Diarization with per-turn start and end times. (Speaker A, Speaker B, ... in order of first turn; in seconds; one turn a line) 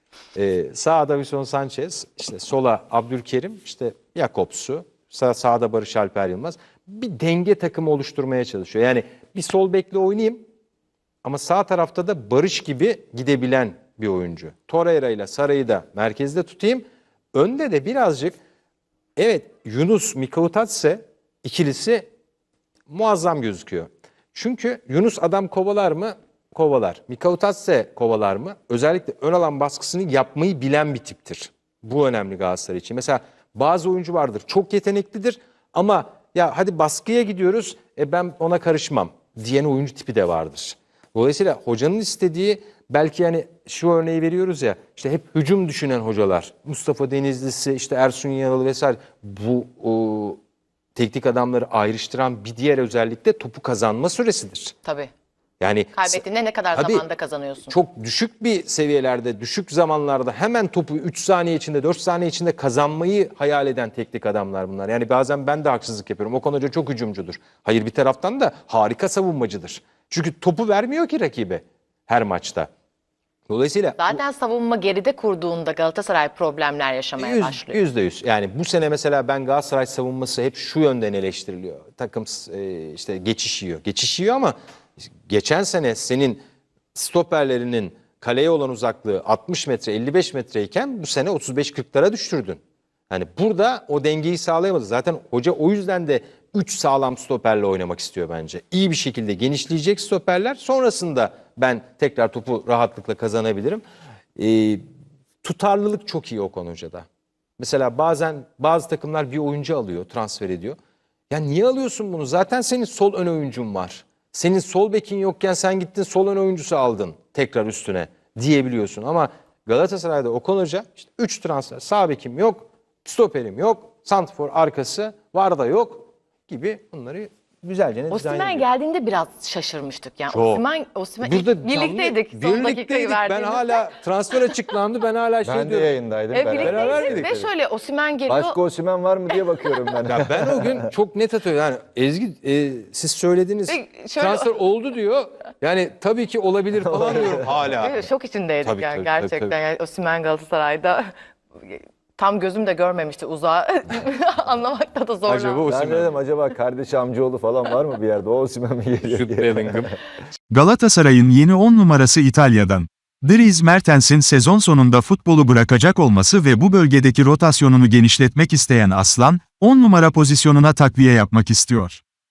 Speaker A: 0.3-10.4
Speaker A: 11.2-18.4
Speaker A: 19.1-22.1
Speaker A: 22.9-50.4
Speaker A: 51.0-54.8
Speaker B: 54.8-55.1
Speaker A: 55.6-56.2
Speaker B: 55.9-57.7
Speaker A: 56.7-57.0
Speaker A: 57.7-72.7
Speaker A: 73.5-74.2
Speaker B: 74.0-77.8
Speaker A: 77.2-86.4
Speaker A: 86.9-103.8
Speaker A: 104.3-104.8
Speaker A: 105.4-107.0
Speaker A: 107.6-110.8
Speaker A: 111.3-128.7
Speaker B: 128.1-133.9
Speaker A: 130.3-130.6
Speaker A: 131.2-135.9
Speaker C: 135.4-137.5
Speaker B: 136.3-138.6
Speaker A: 136.6-137.3
Speaker C: 138.3-140.8
Speaker A: 140.1-148.0
Speaker B: 143.7-144.5
Speaker C: 146.9-147.6
Speaker B: 147.8-155.6
Speaker A: 148.6-149.5
Speaker A: 155.2-156.2
Speaker C: 155.7-159.8
Speaker A: 159.1-159.9
Speaker D: 160.5-172.0